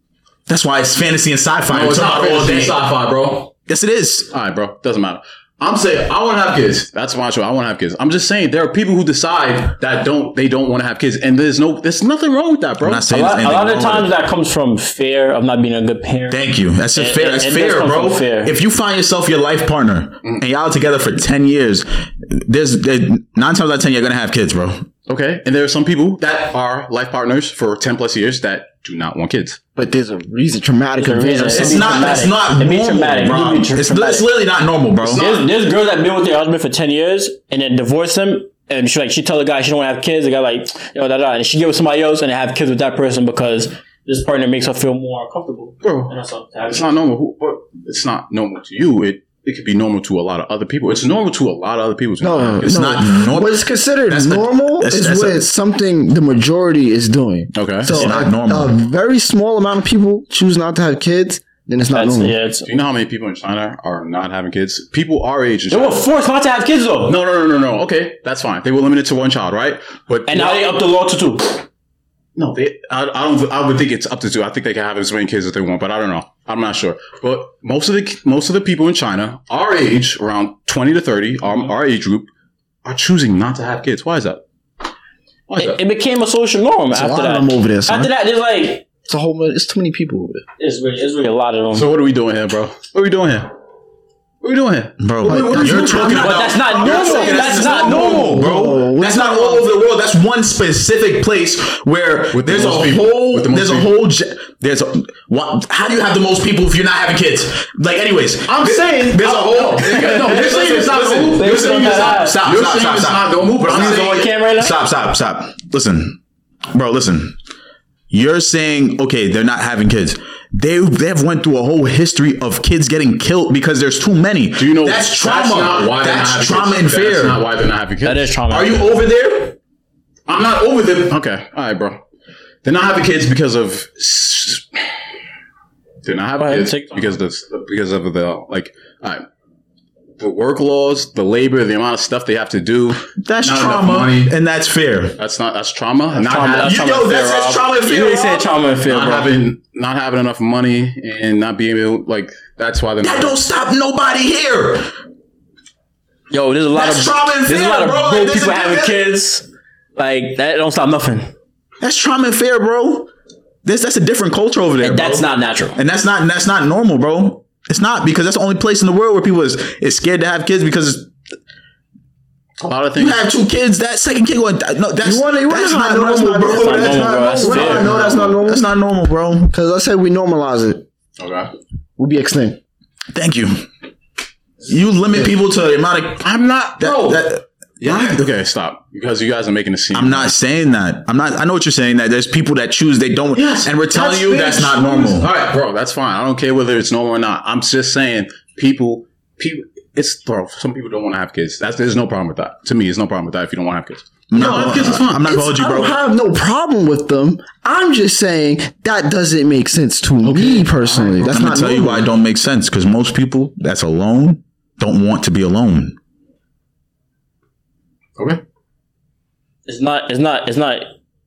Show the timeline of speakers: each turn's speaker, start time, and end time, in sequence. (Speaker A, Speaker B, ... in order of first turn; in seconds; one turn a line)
Speaker A: 0.5-2.8
Speaker B: 1.7-3.5
Speaker A: 3.7-4.3
Speaker B: 4.3-13.1
Speaker A: 12.8-14.1
Speaker C: 13.1-18.5
Speaker A: 16.3-24.9
Speaker B: 25.1-29.6
Speaker D: 29.8-32.3
Speaker C: 31.0-34.3
Speaker A: 31.5-35.2
Speaker B: 35.0-35.5
Speaker C: 35.1-46.9
Speaker B: 45.8-46.1
Speaker B: 46.7-53.2
Speaker D: 52.2-62.4
Speaker A: 52.6-55.5
Speaker B: 57.5-58.0
Speaker A: 57.9-58.7
Speaker C: 61.9-62.7
Speaker B: 62.6-66.1
Speaker C: 65.7-67.2
Speaker B: 67.1-70.8
Speaker C: 70.3-71.6
Speaker B: 72.3-82.3
Speaker B: 82.8-84.4
Speaker B: 85.5-85.8
Speaker C: 85.6-88.8
Speaker D: 86.9-88.1
Speaker D: 89.0-90.4
Speaker C: 90.6-91.9
Speaker B: 91.7-93.5
Speaker B: 94.4-97.4
Speaker A: 95.0-116.2
Speaker D: 95.3-96.2
Speaker C: 96.1-98.5
Speaker D: 97.5-99.7
Speaker B: 102.3-103.9
Speaker B: 108.5-114.3
Speaker C: 109.7-112.4
Speaker C: 113.7-114.8
Speaker A: 116.7-117.3
Speaker A: 118.1-127.4
Speaker B: 124.6-128.4
Speaker C: 128.0-128.9
Speaker A: 128.5-129.6
Speaker B: 130.3-132.0
Speaker B: 132.6-134.8
Speaker B: 136.0-139.3
Speaker C: 136.4-137.1
Speaker B: 140.2-144.3
Speaker A: 143.2-145.2
Speaker B: 145.2-147.0
Speaker C: 146.2-149.3
Speaker A: 146.6-148.6
Speaker B: 148.8-153.4
Speaker A: 153.0-154.9
Speaker C: 156.3-161.3
Speaker A: 156.7-159.1
Speaker A: 161.8-163.1
Speaker A: 163.6-171.1
Speaker C: 164.8-165.8
Speaker B: 172.6-173.3
Speaker A: 172.9-179.5
Speaker D: 175.0-178.7
Speaker C: 176.4-177.9
Speaker B: 177.4-178.3
Speaker D: 179.5-180.8
Speaker B: 181.2-181.5
Speaker D: 182.0-182.6
Speaker A: 183.1-183.7
Speaker A: 184.7-188.3
Speaker B: 186.2-190.3
Speaker A: 189.9-195.3
Speaker B: 193.3-205.3
Speaker A: 204.3-206.0
Speaker D: 205.2-212.1
Speaker B: 210.2-211.6
Speaker A: 211.3-215.9
Speaker B: 218.2-218.4
Speaker C: 219.7-220.9